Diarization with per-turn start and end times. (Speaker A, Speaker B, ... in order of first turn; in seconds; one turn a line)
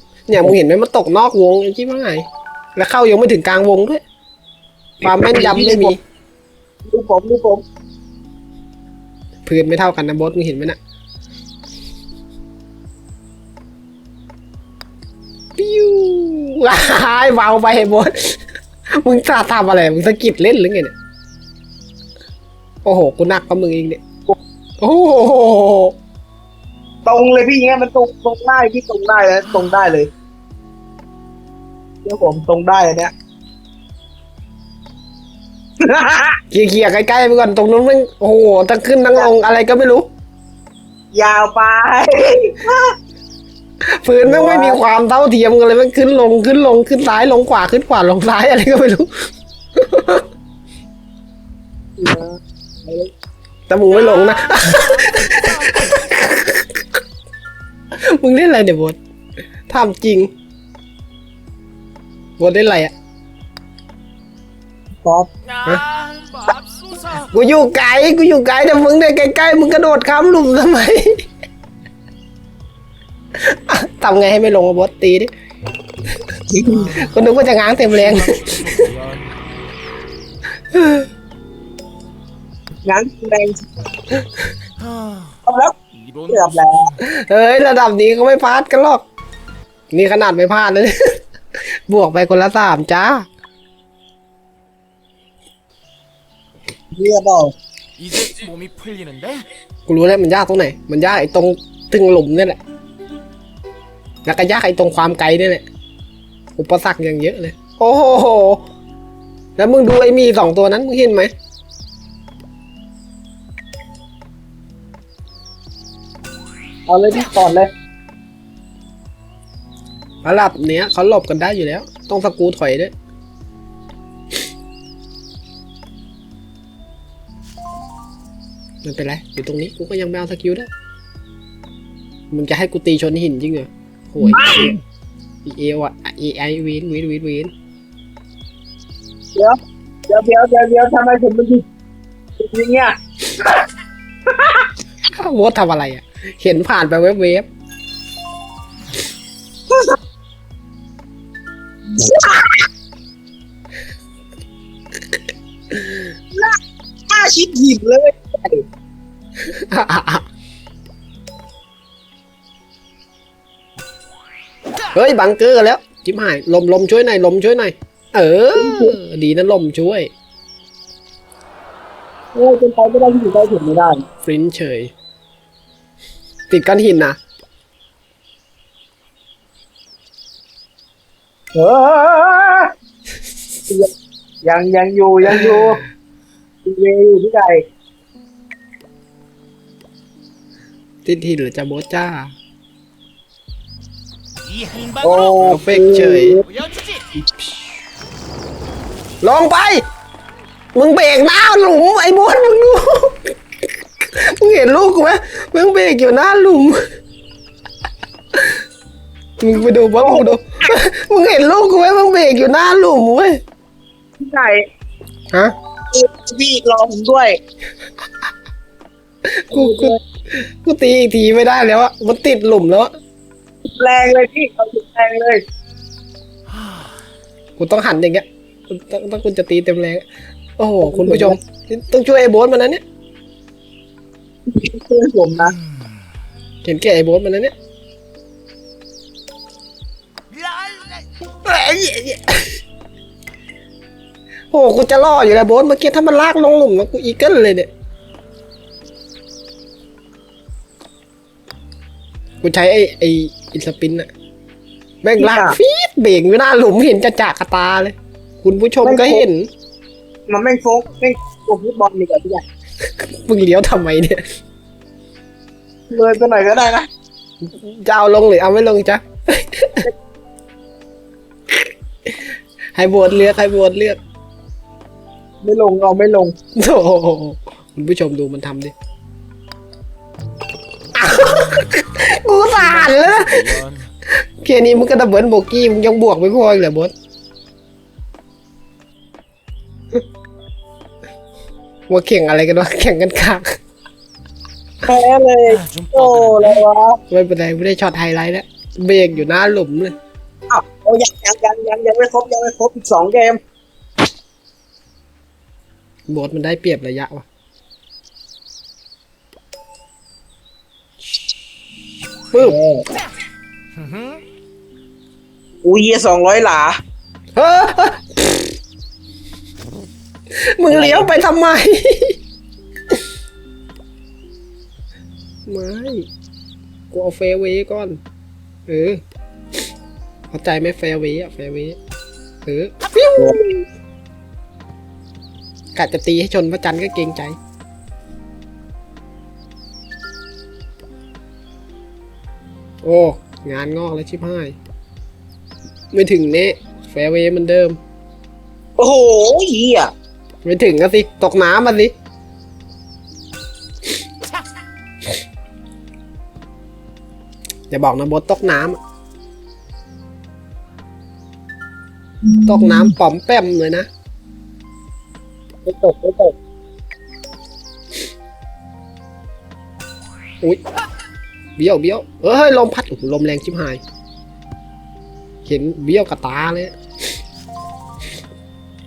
Speaker A: 0.3-4.0
Speaker A: 5.0-6.0
Speaker B: 5.1-6.0
Speaker B: 6.9-7.6
Speaker A: 9.5-10.8
Speaker A: 15.6-18.4
Speaker A: 18.9-20.9
Speaker A: 22.9-24.0
Speaker A: 24.8-25.9
Speaker B: 27.1-30.1
Speaker B: 32.0-33.1
Speaker B: 35.8-36.4
Speaker A: 36.5-40.1
Speaker B: 41.1-42.9
Speaker A: 43.9-49.1
Speaker B: 44.2-44.8
Speaker A: 49.8-50.2
Speaker B: 52.0-53.1
Speaker A: 53.7-56.7
Speaker C: 53.9-55.9
Speaker A: 58.0-59.0
Speaker A: 59.7-60.3
Speaker A: 62.4-62.9
Speaker B: 65.0-65.3
Speaker C: 65.5-67.3
Speaker A: 67.3-71.1
Speaker A: 73.5-75.3
Speaker B: 76.5-77.0
Speaker C: 76.7-77.1
Speaker A: 77.0-78.9
Speaker C: 77.9-79.3
Speaker A: 80.7-81.1
Speaker B: 82.9-83.6
Speaker C: 84.8-85.4
Speaker B: 85.5-85.8
Speaker C: 85.9-86.7
Speaker B: 86.3-86.9
Speaker A: 87.0-89.1
Speaker A: 89.9-91.2
Speaker A: 91.9-93.3
Speaker B: 96.9-97.5
Speaker C: 98.0-99.5
Speaker A: 99.9-102.6
Speaker A: 104.2-105.7
Speaker A: 106.6-108.6
Speaker A: 109.6-111.3
Speaker B: 116.9-117.7
Speaker A: 120.2-122.9
Speaker A: 128.8-130.7
Speaker A: 132.3-134.8
Speaker B: 134.3-134.8
Speaker A: 135.4-137.5
Speaker B: 140.1-141.6
Speaker B: 142.4-143.6
Speaker B: 144.3-144.7
Speaker A: 145.2-147.5
Speaker B: 151.9-152.6
Speaker B: 157.1-158.6
Speaker A: 159.5-160.2
Speaker A: 164.9-170.1
Speaker B: 168.6-169.0
Speaker B: 172.3-174.0
Speaker A: 174.2-174.9
Speaker A: 176.5-177.2
Speaker B: 181.6-182.7
Speaker B: 184.4-185.8
Speaker A: 185.3-185.8
Speaker B: 186.7-187.6
Speaker A: 191.1-192.3
Speaker C: 194.4-195.4
Speaker B: 195.0-196.5
Speaker A: 195.4-196.4
Speaker C: 196.5-197.1
Speaker A: 199.2-199.8
Speaker A: 200.7-203.3
Speaker A: 204.2-206.8
Speaker A: 209.4-213.4
Speaker B: 210.0-210.3
Speaker B: 214.2-214.6
Speaker B: 215.9-217.4
Speaker A: 219.2-222.9
Speaker B: 219.5-220.0
Speaker B: 223.8-225.4
Speaker A: 227.6-230.1
Speaker A: 230.6-232.8
Speaker B: 230.8-231.4
Speaker B: 234.5-235.6
Speaker A: 236.6-237.6
Speaker C: 240.3-241.1
Speaker A: 241.4-242.5
Speaker A: 244.5-247.7
Speaker A: 252.4-254.1
Speaker A: 255.0-259.5
Speaker B: 255.2-255.6
Speaker B: 258.8-259.2
Speaker B: 260.3-262.4
Speaker A: 262.9-264.2
Speaker B: 265.9-266.9
Speaker A: 267.4-269.9
Speaker A: 272.8-274.0
Speaker B: 275.4-276.4
Speaker A: 276.6-278.7
Speaker A: 280.9-286.9
Speaker C: 281.3-281.7
Speaker C: 282.6-283.9
Speaker A: 291.9-293.5
Speaker B: 294.8-297.0
Speaker C: 295.5-296.6
Speaker A: 297.1-299.9
Speaker B: 300.5-303.4
Speaker A: 306.1-307.3
Speaker B: 312.3-312.8
Speaker C: 313.8-314.2
Speaker B: 315.6-316.8
Speaker A: 317.4-318.5
Speaker A: 320.4-322.2
Speaker B: 320.7-321.1
Speaker A: 325.5-326.1
Speaker A: 326.9-328.0
Speaker A: 328.7-329.0
Speaker A: 330.3-331.8
Speaker A: 332.4-333.6
Speaker A: 335.8-337.4
Speaker A: 342.8-344.6
Speaker A: 345.9-347.8
Speaker B: 348.8-349.9
Speaker A: 350.4-351.9
Speaker A: 357.7-358.8
Speaker B: 362.2-362.9
Speaker A: 362.5-363.9
Speaker B: 365.6-366.3
Speaker A: 371.6-373.8
Speaker A: 375.4-376.7